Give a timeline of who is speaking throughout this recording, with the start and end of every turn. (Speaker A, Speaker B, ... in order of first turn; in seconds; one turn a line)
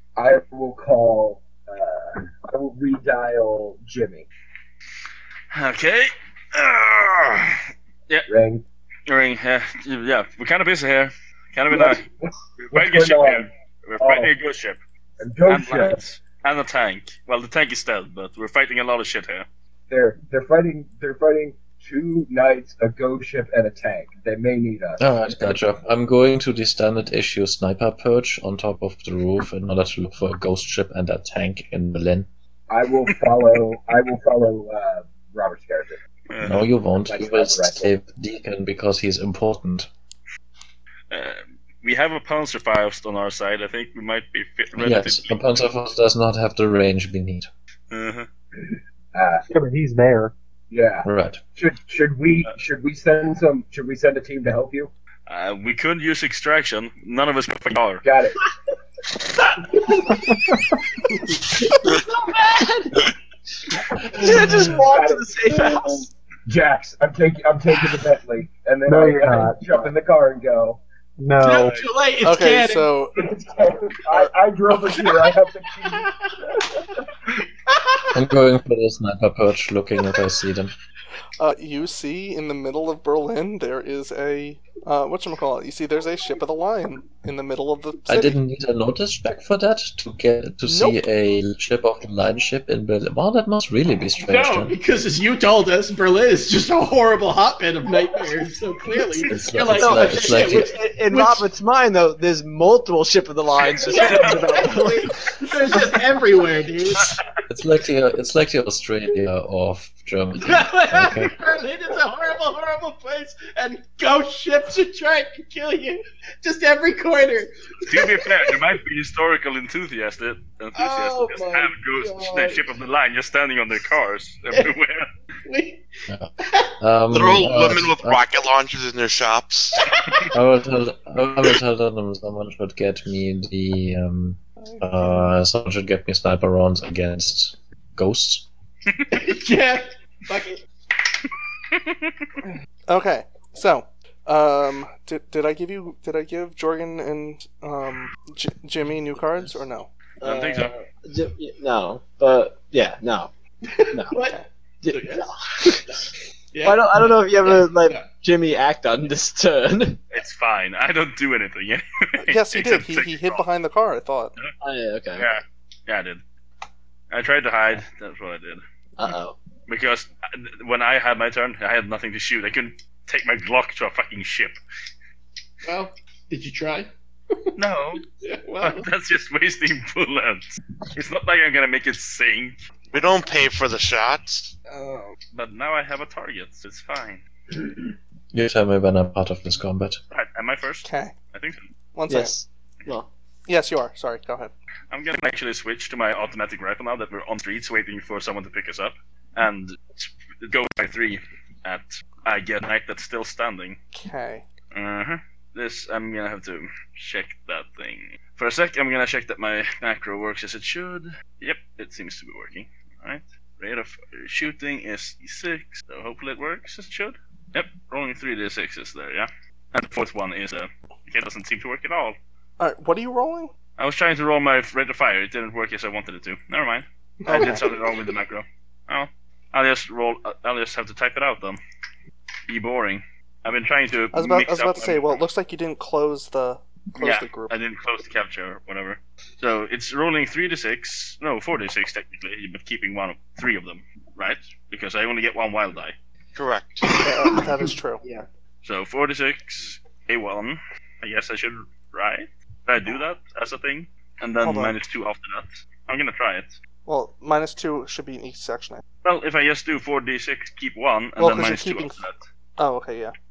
Speaker A: 0.2-4.3
Speaker B: 5.5-8.2
Speaker A: 8.3-8.6
Speaker B: 9.1-12.0
Speaker A: 11.7-14.3
Speaker B: 12.6-14.8
Speaker A: 15.2-16.0
Speaker B: 15.4-19.5
Speaker A: 19.9-25.0
Speaker C: 25.0-32.3
Speaker A: 32.7-36.0
Speaker B: 36.3-36.6
Speaker C: 36.4-39.9
Speaker A: 37.0-37.9
Speaker B: 41.1-45.4
Speaker C: 44.8-47.5
Speaker B: 47.9-48.3
Speaker A: 49.1-49.4
Speaker D: 49.5-50.3
Speaker A: 50.7-54.9
Speaker C: 51.0-51.4
Speaker B: 55.3-58.0
Speaker A: 58.0-58.4
Speaker A: 59.8-60.1
Speaker E: 61.7-63.0
Speaker A: 63.9-65.6
Speaker E: 64.1-66.1
Speaker A: 66.5-70.8
Speaker D: 68.9-69.8
Speaker D: 71.2-71.8
Speaker F: 71.4-72.9
Speaker G: 72.2-73.2
Speaker A: 73.1-76.7
Speaker F: 74.9-75.3
Speaker C: 78.1-80.7
Speaker G: 81.4-88.4
Speaker C: 88.1-94.8
Speaker G: 90.6-91.0
Speaker F: 94.2-101.4
Speaker C: 99.3-100.7
Speaker E: 99.7-105.8
Speaker F: 103.8-107.2
Speaker C: 107.5-111.3
Speaker F: 110.4-118.7
Speaker B: 117.8-125.1
Speaker F: 120.7-122.8
Speaker F: 125.4-125.8
Speaker C: 126.1-128.2
Speaker F: 126.4-126.7
Speaker H: 127.1-129.8
Speaker F: 129.8-130.3
Speaker C: 130.3-138.4
Speaker G: 134.6-135.1
Speaker F: 139.1-140.6
Speaker G: 142.9-149.9
Speaker E: 150.2-153.3
Speaker B: 150.2-150.7
Speaker F: 153.7-158.1
Speaker E: 153.9-154.2
Speaker E: 154.8-156.0
Speaker E: 156.6-160.0
Speaker B: 160.1-163.4
Speaker G: 162.2-164.3
Speaker E: 164.6-165.3
Speaker B: 165.2-166.2
Speaker B: 167.1-169.1
Speaker E: 169.0-169.3
Speaker B: 169.7-174.6
Speaker F: 175.6-177.5
Speaker B: 177.6-178.0
Speaker F: 178.2-178.9
Speaker B: 178.6-182.6
Speaker H: 182.9-184.5
Speaker F: 184.7-185.2
Speaker B: 185.3-187.2
Speaker C: 188.3-190.0
Speaker B: 190.1-191.6
Speaker G: 190.8-191.1
Speaker G: 191.9-192.3
Speaker E: 192.1-193.1
Speaker G: 193.5-194.5
Speaker B: 194.9-203.8
Speaker G: 203.9-204.4
Speaker B: 204.7-222.2
Speaker G: 222.6-223.5
Speaker B: 223.8-231.6
Speaker G: 227.2-227.6
Speaker B: 232.5-235.2
Speaker G: 234.1-237.5
Speaker B: 237.0-245.9
Speaker H: 246.3-246.9
Speaker G: 247.0-248.0
Speaker B: 248.6-256.6
Speaker G: 254.4-254.8
Speaker G: 256.9-258.8
Speaker B: 259.0-262.2
Speaker G: 261.2-262.0
Speaker G: 262.6-263.1